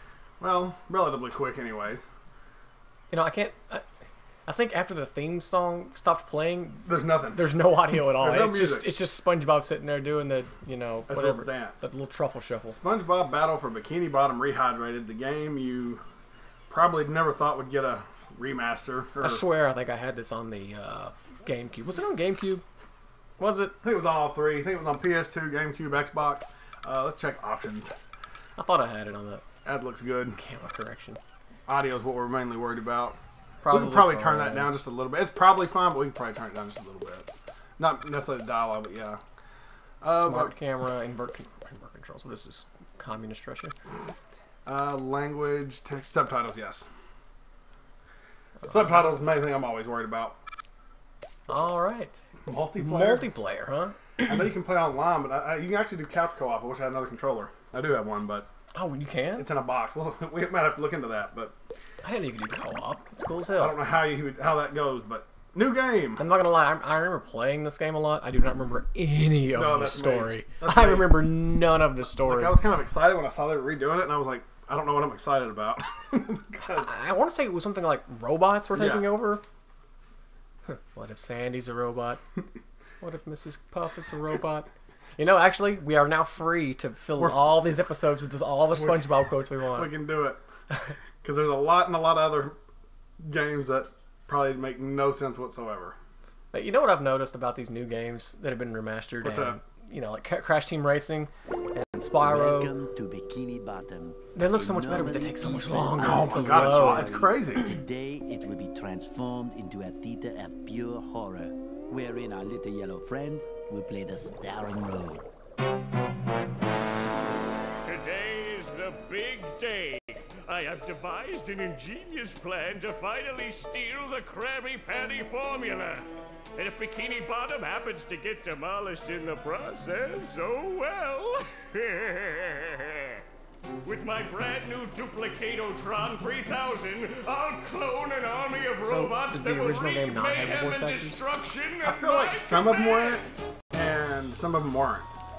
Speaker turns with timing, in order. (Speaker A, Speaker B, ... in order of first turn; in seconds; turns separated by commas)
Speaker A: 0.4-2.0, Speaker B: 3.1-3.8, Speaker B: 4.5-12.8, Speaker A: 6.8-8.9, Speaker A: 11.1-11.8, Speaker A: 12.7-16.0, Speaker A: 16.7-19.4, Speaker B: 19.2-22.6, Speaker B: 23.4-23.8, Speaker A: 23.8-27.9, Speaker B: 28.6-29.4, Speaker A: 29.6-30.4, Speaker B: 30.4-31.2, Speaker A: 31.7-33.2, Speaker B: 33.6-34.7, Speaker A: 33.7-39.2, Speaker A: 40.0-40.5, Speaker B: 40.0-43.7, Speaker A: 44.7-46.9, Speaker B: 48.6-49.1, Speaker A: 48.7-50.4, Speaker B: 51.5-52.2, Speaker A: 52.5-53.3, Speaker B: 52.8-54.3, Speaker A: 54.2-58.5, Speaker B: 58.7-59.5, Speaker A: 59.4-61.5, Speaker B: 62.0-63.8, Speaker A: 63.6-66.2, Speaker B: 66.2-72.6, Speaker A: 69.5-71.2, Speaker A: 72.2-76.9, Speaker B: 76.7-79.4, Speaker A: 78.7-79.1, Speaker B: 80.7-82.2, Speaker B: 83.0-89.9, Speaker A: 87.2-87.6, Speaker A: 88.7-90.4, Speaker A: 91.2-92.6, Speaker A: 93.2-96.0, Speaker B: 96.5-102.8, Speaker A: 99.2-99.6, Speaker C: 102.2-115.2, Speaker B: 104.3-107.2, Speaker A: 106.0-107.7, Speaker D: 117.8-133.2, Speaker D: 133.8-143.2, Speaker B: 138.8-141.2, Speaker A: 141.8-145.1